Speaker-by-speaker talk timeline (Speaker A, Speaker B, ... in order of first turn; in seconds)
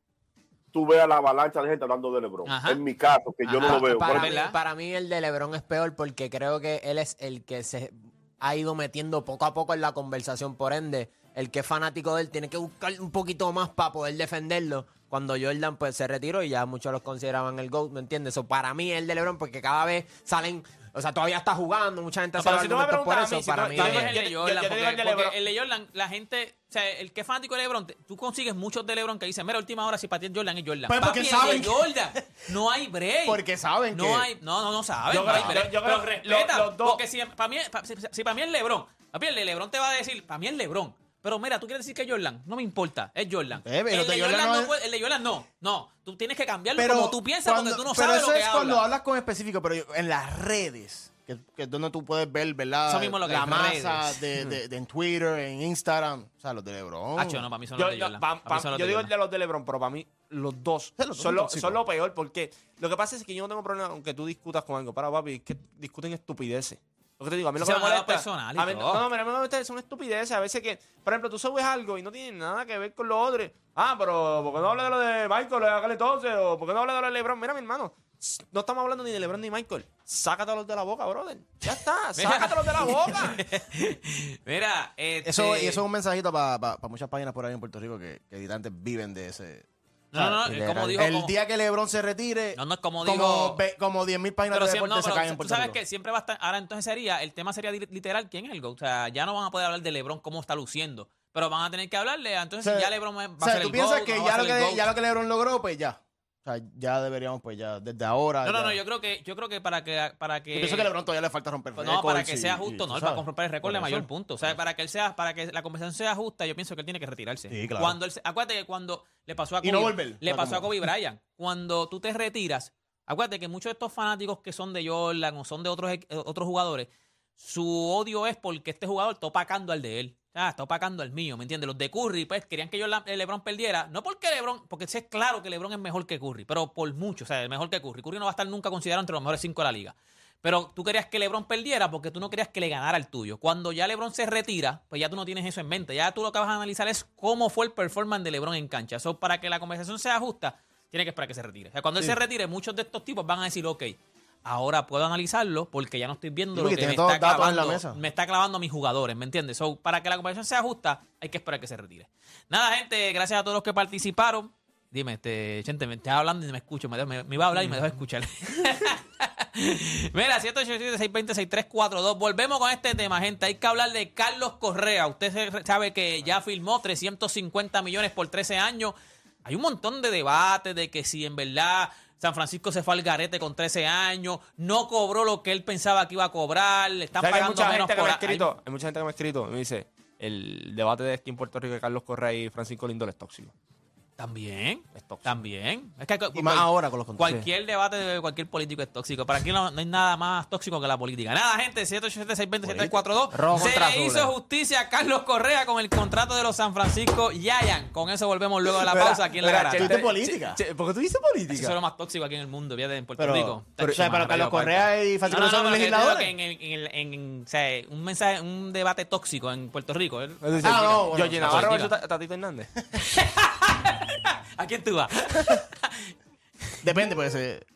Speaker A: 0.7-4.5
Speaker B: 2.5-2.8, 3.4-4.5, 23.8-33.4, 33.9-48.8, 52.9-54.5, 57.2-59.1, 67.6-69.0, 82.2-85.8, 90.1-91.3, 92.6-93.6, 94.5-104.9, 108.4-110.9, 111.8-188.5, 194.2-210.0, 211.5-214.7, 215.3-221.9, 223.0-226.1
Speaker C: 3.6-24.1, 203.3-204.3
Speaker D: 22.4-25.4, 35.1-37.0, 57.8-83.4, 187.2-193.5, 194.9-195.3, 208.7-211.8, 213.8-214.8, 220.4-222.7
Speaker E: 30.9-32.2, 33.2-34.3, 35.3-35.6, 43.6-44.7, 46.8-57.5, 61.0-61.8, 85.2-95.8, 102.6-108.8, 110.5-114.5, 117.5-118.0, 119.6-120.9, 156.5-158.0, 196.3-197.4, 209.8-210.6, 213.2-216.3, 220.6-221.8, 226.8-227.7